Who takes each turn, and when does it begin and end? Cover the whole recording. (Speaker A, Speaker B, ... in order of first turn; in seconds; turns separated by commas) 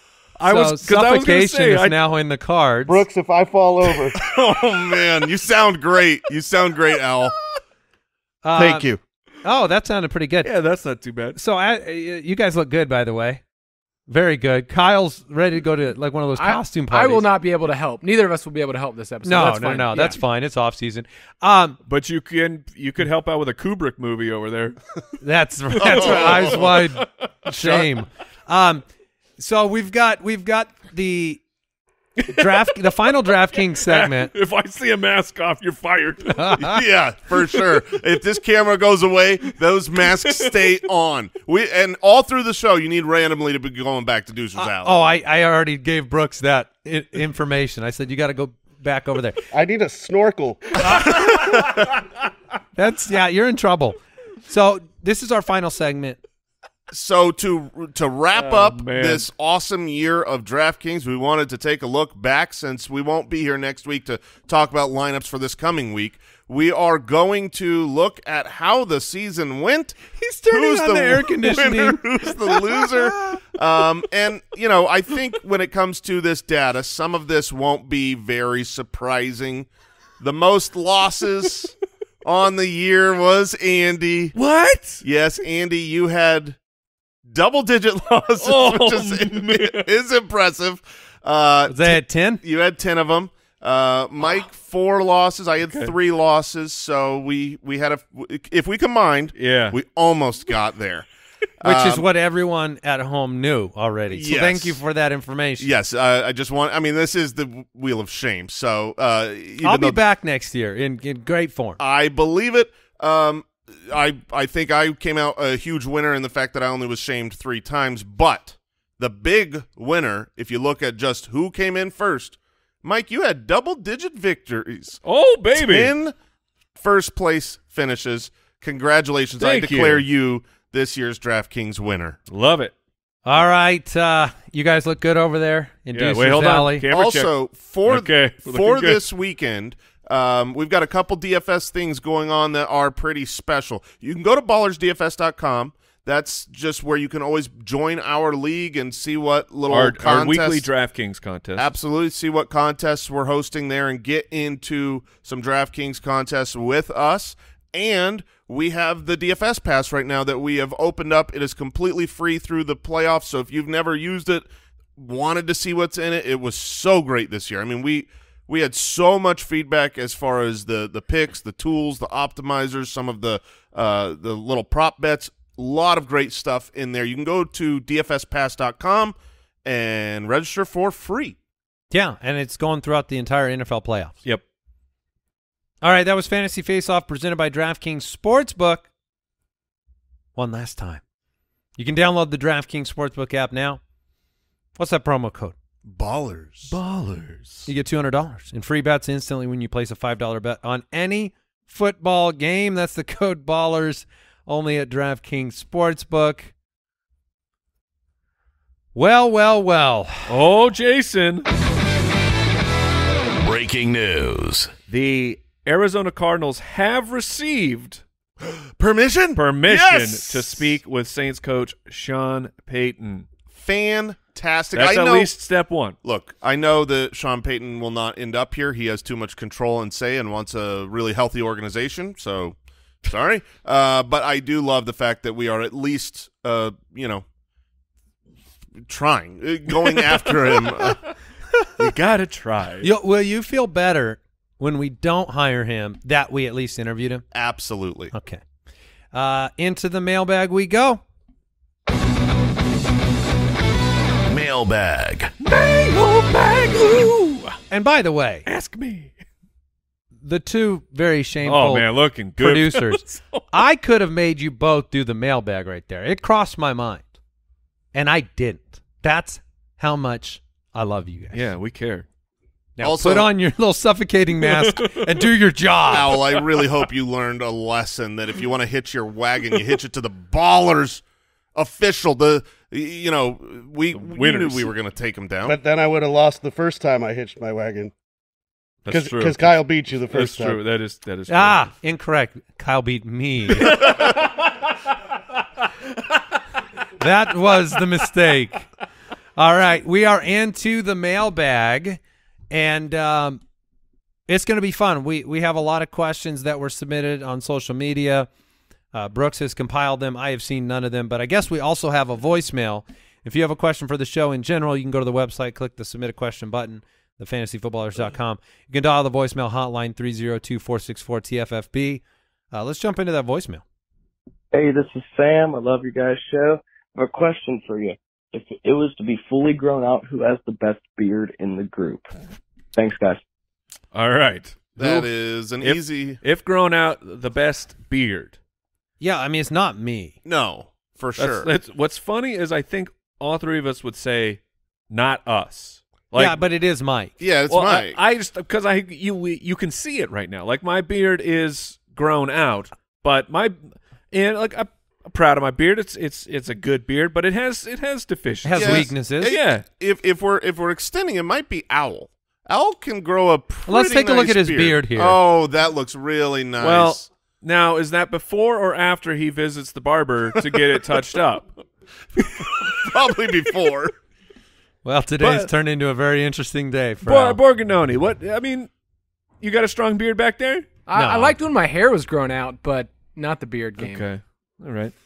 Speaker A: 0.4-2.0, Speaker B: 0.5-3.0, Speaker C: 2.9-4.2, Speaker D: 4.2-7.3, Speaker B: 8.4-8.9, Speaker D: 8.6-9.0, Speaker B: 9.4-10.5, Speaker A: 10.4-11.4, Speaker B: 11.3-13.4, Speaker B: 14.1-17.2, Speaker E: 16.4-20.2, Speaker B: 19.2-21.8, Speaker A: 21.9-24.8, Speaker B: 25.2-28.8, Speaker A: 25.8-27.9, Speaker D: 25.8-26.8, Speaker B: 29.4-31.4, Speaker A: 32.2-32.7, Speaker B: 32.3-34.3, Speaker A: 33.8-36.7, Speaker B: 36.4-36.8, Speaker D: 36.6-45.0, Speaker A: 40.3-40.5, Speaker B: 44.5-49.5, Speaker C: 49.5-51.3, Speaker B: 50.8-51.6, Speaker D: 51.3-51.7, Speaker B: 52.8-56.2, Speaker D: 56.9-70.0, Speaker A: 58.3-59.3, Speaker B: 70.2-73.4, Speaker D: 70.5-79.7, Speaker D: 80.2-84.3, Speaker A: 84.3-85.0, Speaker D: 85.0-86.6, Speaker D: 87.3-101.1, Speaker A: 88.4-89.9, Speaker B: 91.7-92.4, Speaker A: 95.7-95.9, Speaker A: 99.4-99.8, Speaker D: 101.6-102.0, Speaker B: 101.6-105.7, Speaker D: 104.1-104.8, Speaker D: 105.6-110.0, Speaker B: 109.6-111.8, Speaker D: 111.8-125.0, Speaker A: 125.0-125.9, Speaker D: 125.5-126.2, Speaker D: 126.8-132.2, Speaker A: 129.4-130.1, Speaker A: 132.3-132.7, Speaker B: 133.3-136.8, Speaker A: 135.9-137.3, Speaker D: 136.9-150.7, Speaker A: 137.8-139.0, Speaker A: 149.7-151.7, Speaker D: 151.6-181.4, Speaker B: 181.9-184.2, Speaker B: 185.8-188.9, Speaker B: 190.4-191.0, Speaker B: 191.8-193.8, Speaker B: 194.8-195.6, Speaker D: 195.8-196.8, Speaker A: 196.7-197.7, Speaker B: 197.7-206.5, Speaker B: 208.9-210.3, Speaker A: 210.3-211.5, Speaker F: 213.4-214.7, Speaker A: 214.9-218.0, Speaker D: 218.8-220.7, Speaker A: 219.3-223.3, Speaker D: 223.5-225.3, Speaker A: 224.7-225.9, Speaker D: 226.0-237.2, Speaker D: 238.9-241.0, Speaker A: 240.0-240.9, Speaker A: 241.8-242.9, Speaker B: 242.8-247.2, Speaker D: 247.3-248.1, Speaker B: 248.1-248.4, Speaker B: 249.1-251.0, Speaker F: 254.3-255.3, Speaker A: 255.4-257.6, Speaker B: 257.7-258.5, Speaker A: 258.5-259.1, Speaker B: 260.2-267.1, Speaker A: 261.4-263.4, Speaker B: 267.9-271.4, Speaker A: 271.3-272.1, Speaker B: 272.8-276.1, Speaker D: 272.8-273.3, Speaker A: 274.4-275.2, Speaker D: 275.9-281.0, Speaker D: 281.6-285.6, Speaker A: 283.9-284.7, Speaker C: 285.5-287.9, Speaker A: 288.9-289.6, Speaker C: 288.9-290.6, Speaker A: 290.1-291.7, Speaker B: 291.3-293.9, Speaker A: 293.7-294.4, Speaker B: 297.0-298.7, Speaker B: 299.4-302.0, Speaker B: 302.5-303.4, Speaker B: 304.3-308.3, Speaker B: 308.9-323.6, Speaker G: 324.5-332.1, Speaker G: 332.7-333.2, Speaker A: 333.9-335.1, Speaker D: 334.8-336.2, Speaker A: 335.6-338.4, Speaker B: 339.0-340.2, Speaker D: 340.2-341.5, Speaker A: 341.2-344.4, Speaker A: 344.9-346.4, Speaker B: 346.2-347.1, Speaker D: 347.2-348.0, Speaker A: 347.5-353.6, Speaker A: 354.1-359.6, Speaker B: 358.4-359.3, Speaker D: 358.6-367.1, Speaker B: 363.7-365.2, Speaker A: 366.6-371.5, Speaker A: 372.2-372.9, Speaker D: 372.4-373.9, Speaker B: 374.8-377.4, Speaker A: 375.2-375.5, Speaker A: 377.1-378.7, Speaker A: 379.4-380.7, Speaker E: 380.9-384.1, Speaker B: 380.9-381.4, Speaker A: 383.8-384.9